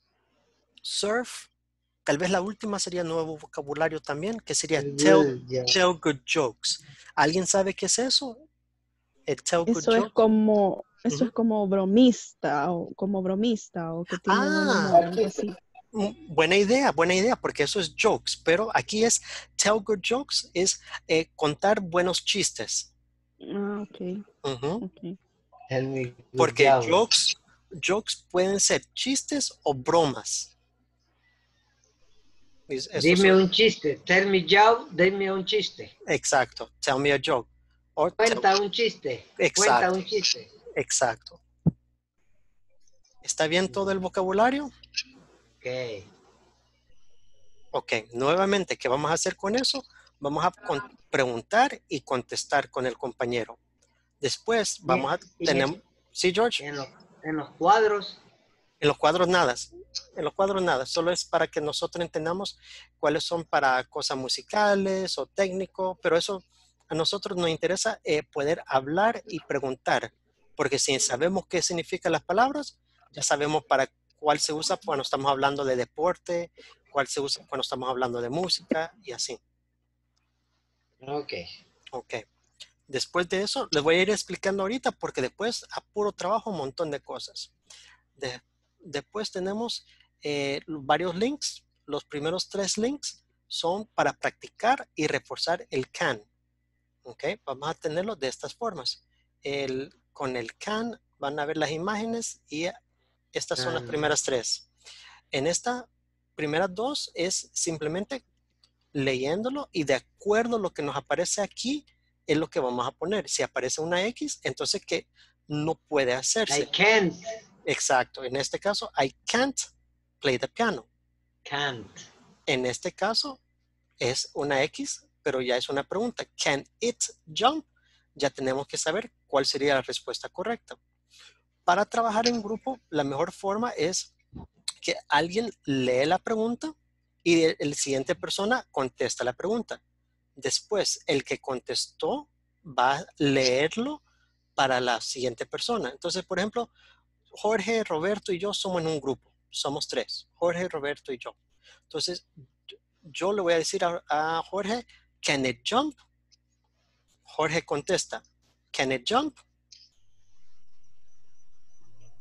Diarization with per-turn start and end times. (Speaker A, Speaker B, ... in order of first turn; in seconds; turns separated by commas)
Speaker A: 0.8-1.5, Speaker A: 2.0-8.4, Speaker B: 4.8-5.7, Speaker A: 9.3-10.1, Speaker C: 9.7-15.5, Speaker A: 14.2-15.0, Speaker B: 14.9-15.5, Speaker A: 15.9-22.9, Speaker C: 23.4-24.2, Speaker A: 24.4-24.8, Speaker C: 24.8-25.2, Speaker B: 25.7-27.0, Speaker A: 26.4-30.5, Speaker A: 32.7-33.4, Speaker B: 33.0-35.9, Speaker A: 36.1-38.4, Speaker B: 38.2-40.5, Speaker A: 39.4-39.9, Speaker A: 40.7-41.4, Speaker A: 43.2-44.7, Speaker B: 45.6-46.1, Speaker A: 47.7-53.6, Speaker A: 54.2-56.6, Speaker B: 54.9-55.8, Speaker B: 56.6-58.2, Speaker A: 58.8-79.4, Speaker B: 81.0-81.5, Speaker A: 81.9-82.2, Speaker A: 82.9-87.5, Speaker A: 88.2-96.2, Speaker A: 97.0-102.8, Speaker A: 103.3-104.7, Speaker B: 103.6-104.1, Speaker A: 105.3-108.2, Speaker A: 108.9-116.7, Speaker B: 116.5-117.3, Speaker A: 117.6-119.7, Speaker A: 120.2-120.9, Speaker B: 121.5-122.1, Speaker A: 122.5-123.4, Speaker A: 124.0-130.8, Speaker A: 131.7-134.1, Speaker A: 134.8-136.7, Speaker A: 137.2-139.8, Speaker A: 140.4-144.0, Speaker A: 144.6-146.7, Speaker A: 147.3-151.3, Speaker A: 151.9-156.0, Speaker A: 157.3-159.4